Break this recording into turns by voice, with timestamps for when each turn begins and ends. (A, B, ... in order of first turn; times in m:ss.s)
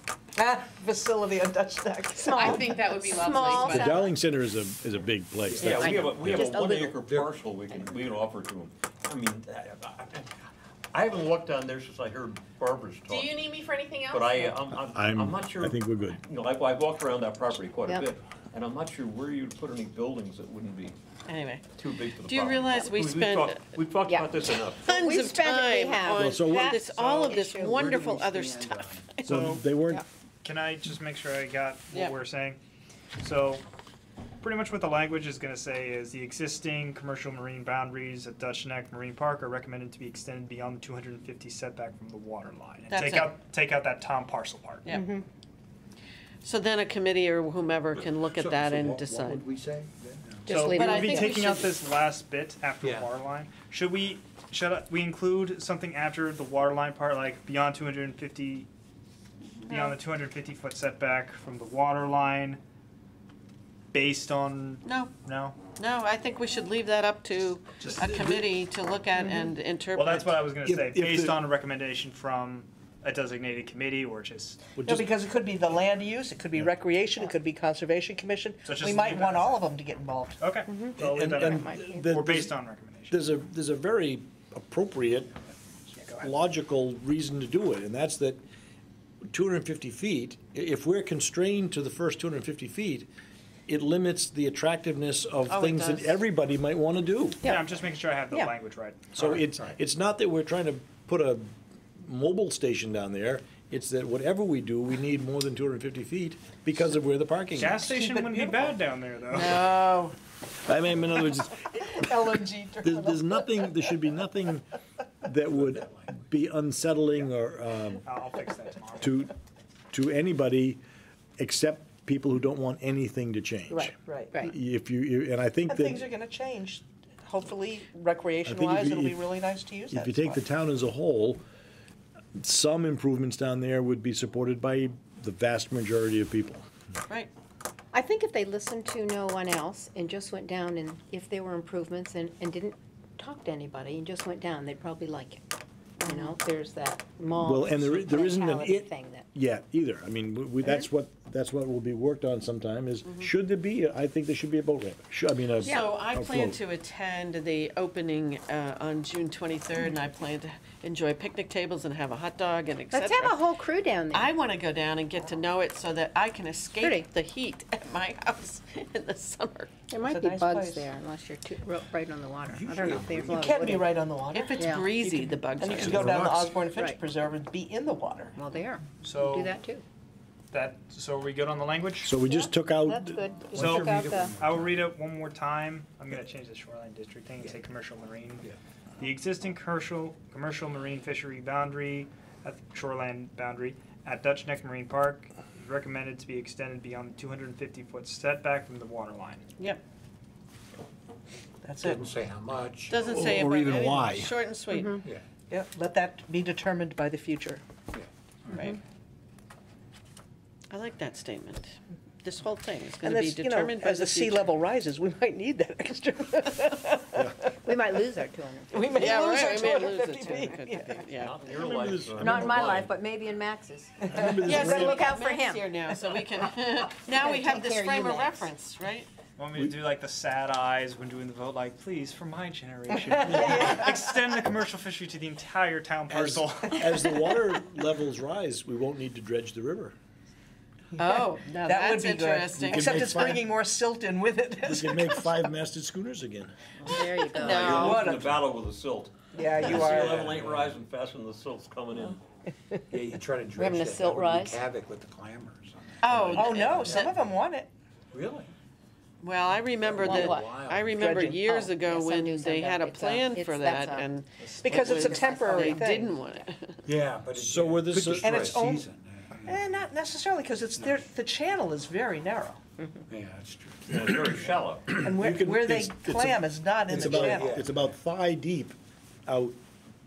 0:00.4-0:02.8 A
0:02.2-0:04.1 B
0:02.3-0:04.0 C
0:03.6-0:06.6 D
0:05.5-0:07.9 E
0:05.5-0:10.3 F
0:05.6-0:07.0 B
0:10.9-0:13.4 F
0:13.1-0:14.6 C
0:14.1-0:21.0 F
0:14.9-0:16.2 D
0:21.3-0:21.6 G
0:21.8-0:24.8 F
0:22.2-0:23.6 G
0:24.1-0:27.7 B
0:24.8-0:29.3 G
0:26.1-0:26.8 D
0:26.9-0:27.3 H
0:27.0-0:29.1 E
0:29.2-0:30.0 D
0:29.3-0:29.7 H
0:30.4-0:32.6 H
0:33.2-0:33.6 H
0:34.4-0:44.8 H
0:42.9-0:43.3 G
0:44.8-0:45.1 G
0:44.9-0:45.2 B
0:46.4-0:49.4 G
0:48.2-0:50.5 E
0:50.4-0:51.4 B
0:50.5-0:58.7 H
0:50.6-0:51.8 G
0:52.8-0:53.1 E
0:59.7-1:02.6 H
0:59.7-1:00.0 G
1:03.9-1:05.6 H
1:04.8-1:05.1 G
1:05.7-1:10.3 G
1:07.8-1:08.4 H
1:08.0-1:08.4 D
1:09.2-1:09.5 B
1:09.9-1:14.6 H
1:10.6-1:11.4 D
1:14.8-1:15.1 D
1:14.8-1:20.4 A
1:18.6-1:19.6 H
1:20.4-1:23.2 H
1:20.7-1:22.1 B
1:21.0-1:22.5 D
1:23.1-1:25.3 D
1:26.0-1:26.4 H
1:26.2-1:28.4 D
1:29.3-1:33.1 D
1:33.7-1:37.4 D
1:35.5-1:36.2 G
1:37.4-1:39.2 H
1:39.1-1:48.0 D
1:39.2-1:39.7 E
1:47.5-1:49.7 H
1:47.9-1:48.7 A
1:49.3-1:50.2 G
1:50.6-1:54.6 D
1:51.7-1:53.7 A
1:55.2-1:58.0 D
1:55.5-1:56.2 E
1:58.0-1:59.2 H
1:59.0-1:59.3 D
1:59.9-2:00.8 D
2:01.4-2:06.0 D
2:03.7-2:04.5 B
2:05.7-2:10.4 A
2:08.4-2:09.2 D
2:09.9-2:11.4 D
2:12.4-2:16.7 D
2:17.9-2:25.4 B
2:26.0-2:29.2 B
2:26.0-2:26.3 G
2:27.4-2:36.6 D
2:33.0-2:33.3 G
2:35.6-2:35.9 B
2:35.6-2:43.4 G
2:42.9-2:44.3 B
2:44.1-2:49.7 G
2:46.8-2:47.0 B
2:49.9-2:53.9 B
2:50.1-2:50.8 A
2:52.4-2:53.5 E
2:53.3-2:58.3 A
2:54.3-2:56.1 G
2:54.6-2:55.0 B
2:55.8-2:56.5 D
2:55.8-2:56.5 E
2:56.7-2:57.0 B
2:58.4-2:59.8 B
2:59.0-2:59.5 H
3:00.5-3:02.2 H
3:02.0-3:03.2 D
3:02.2-3:04.3 B
3:03.5-3:04.9 E
3:03.5-3:08.4 H
3:09.0-3:19.4 H
3:21.6-3:22.0 A
3:21.8-3:23.2 E
3:22.9-3:25.0 G
3:22.9-3:24.3 D
3:24.7-3:25.0 B
3:25.5-3:27.6 A
3:27.9-3:28.7 E
3:28.5-3:28.8 B
3:30.7-3:34.5 G
3:33.0-3:37.5 A
3:37.6-3:39.2 B
3:38.7-3:41.0 A
3:38.7-3:41.4 G
3:41.1-3:42.9 F
3:41.5-3:42.9 D
3:42.2-3:45.6 B
3:44.1-3:45.1 D
3:44.4-3:49.1 G
3:47.1-3:48.5 B
3:49.4-3:57.3 H
3:53.3-3:53.9 B
3:53.4-3:53.8 A
3:56.1-3:59.9 D
4:00.9-4:05.3 A
4:01.0-4:03.2 G
4:02.6-4:03.5 D
4:04.6-4:06.5 D
4:06.8-4:08.0 B
4:06.9-4:08.2 G
4:07.4-4:12.2 F
4:07.6-4:08.5 A
4:09.3-4:10.3 A
4:09.4-4:10.8 E
4:12.9-4:17.0 E
4:13.6-4:14.6 B
4:16.0-4:17.2 G
4:16.3-4:17.7 A
4:18.1-4:18.5 E
4:19.2-4:26.8 G
4:19.8-4:21.2 E
4:20.0-4:20.3 A
4:20.0-4:20.6 B
4:20.9-4:21.6 A
4:21.4-4:24.1 B
4:24.4-4:24.7 H
4:24.6-4:26.1 A
4:24.7-4:26.0 B
4:26.8-4:29.8 E
4:27.3-4:28.6 D
4:28.2-4:28.8 A
4:29.4-4:32.6 A
4:33.1-4:34.6 E
4:33.9-4:34.9 F
4:34.9-4:38.7 D
4:35.0-4:37.5 A
4:36.9-4:37.9 E
4:39.3-4:39.6 D